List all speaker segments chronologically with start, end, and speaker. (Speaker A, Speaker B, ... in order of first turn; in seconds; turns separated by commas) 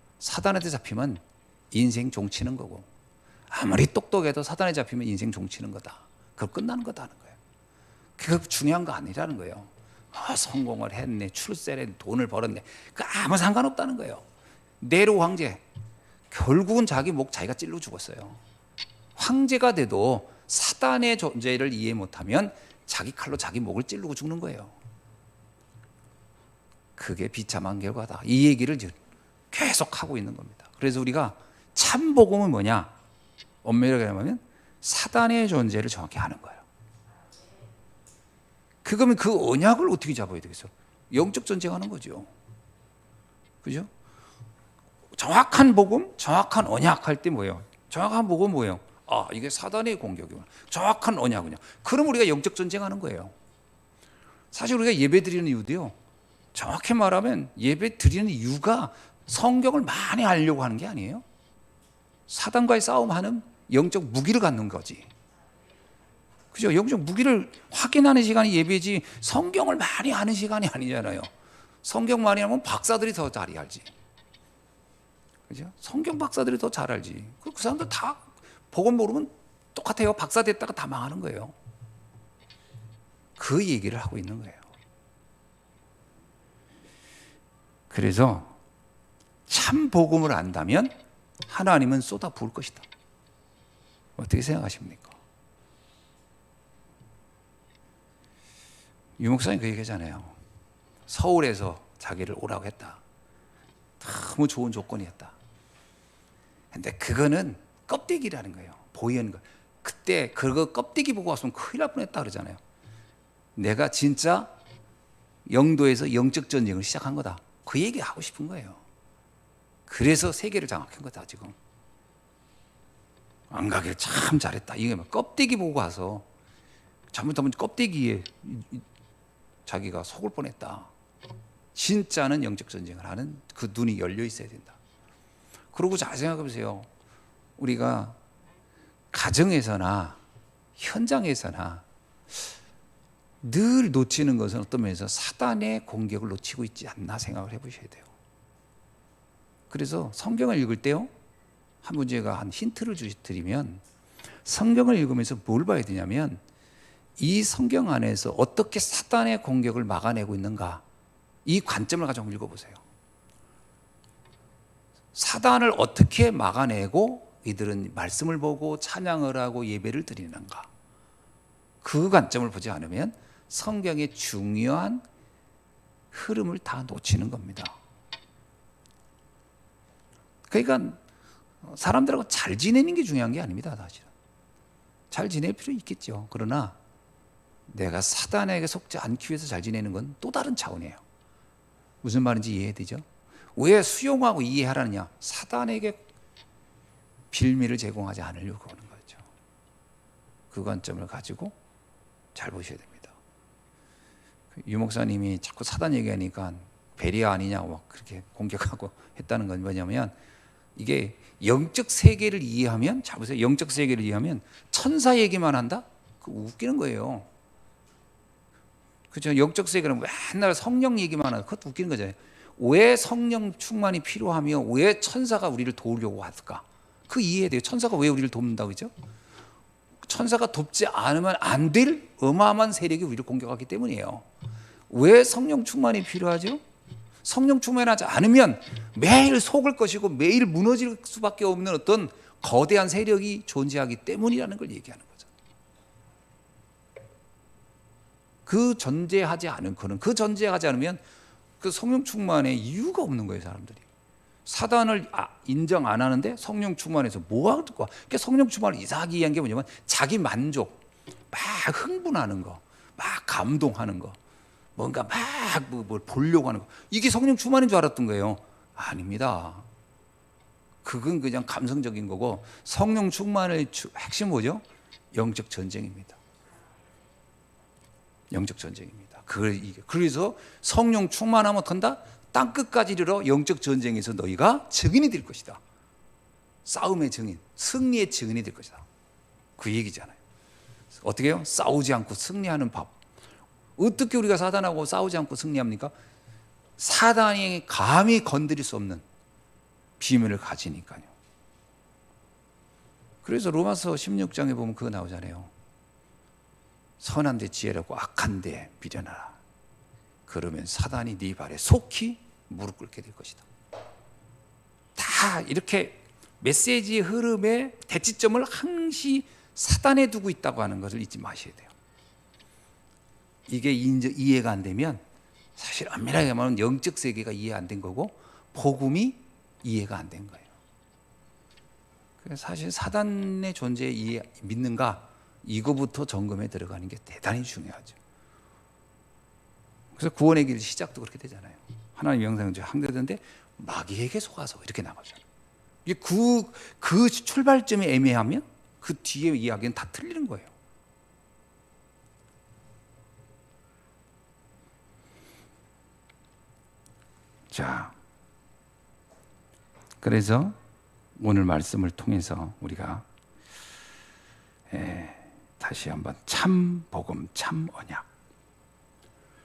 Speaker A: 0.2-2.9, Speaker A: 3.5-7.4, Speaker A: 8.2-14.2, Speaker A: 14.8-15.6, Speaker A: 16.3-18.4, Speaker A: 19.1-24.7, Speaker A: 27.0-28.9, Speaker A: 29.5-32.9, Speaker A: 33.6-36.6, Speaker A: 38.8-42.3, Speaker A: 43.6-43.9, Speaker A: 45.1-53.3, Speaker A: 54.5-55.9, Speaker A: 56.5-61.2, Speaker A: 62.3-65.1, Speaker A: 66.5-71.3, Speaker A: 71.8-73.9, Speaker A: 75.5-81.5, Speaker A: 83.4-84.6, Speaker A: 87.9-88.5, Speaker A: 89.5-90.9, Speaker A: 91.5-92.8, Speaker A: 94.2-95.1, Speaker A: 99.2-100.3, Speaker A: 101.1-103.0, Speaker A: 104.0-105.3, Speaker A: 106.7-112.6, Speaker A: 113.5-114.5, Speaker A: 115.5-118.8, Speaker A: 119.9-121.5, Speaker A: 123.5-126.2, Speaker A: 127.1-128.8, Speaker A: 129.7-130.9, Speaker A: 131.7-134.8, Speaker A: 135.7-136.9, Speaker A: 137.6-138.2, Speaker A: 139.1-140.2, Speaker A: 140.8-142.5, Speaker A: 143.4-148.1, Speaker A: 149.7-151.1, Speaker A: 151.8-153.8, Speaker A: 154.4-156.4, Speaker A: 157.2-160.8, Speaker A: 161.4-162.8, Speaker A: 165.1-170.7, Speaker A: 171.8-175.0, Speaker A: 176.1-177.8, Speaker A: 180.5-181.0, Speaker A: 181.6-184.1, Speaker A: 185.1-186.8, Speaker A: 187.7-191.0, Speaker A: 192.0-193.0, Speaker A: 193.6-196.0, Speaker A: 197.3-199.2, Speaker A: 200.5-201.5, Speaker A: 202.3-203.1, Speaker A: 204.5-210.1, Speaker A: 210.8-217.3, Speaker A: 219.1-228.9, Speaker A: 230.0-234.2, Speaker A: 234.9-236.6, Speaker A: 237.2-245.3, Speaker A: 248.5-251.0, Speaker A: 251.6-253.8, Speaker A: 254.4-264.2, Speaker A: 264.8-269.7, Speaker A: 270.8-276.2, Speaker A: 278.3-285.6, Speaker A: 286.6-288.9, Speaker A: 289.6-290.2, Speaker A: 291.0-292.9, Speaker A: 293.8-295.9, Speaker A: 296.8-299.0, Speaker A: 300.0-301.1, Speaker A: 303.2-305.5, Speaker A: 307.0-309.4, Speaker A: 310.3-313.4, Speaker A: 314.9-321.7, Speaker A: 323.5-325.0, Speaker A: 325.6-330.5, Speaker A: 332.2-337.9, Speaker A: 340.0-345.2, Speaker A: 345.8-350.5, Speaker A: 357.5-357.9, Speaker A: 360.0-360.6, Speaker A: 361.1-363.1, Speaker A: 364.7-368.1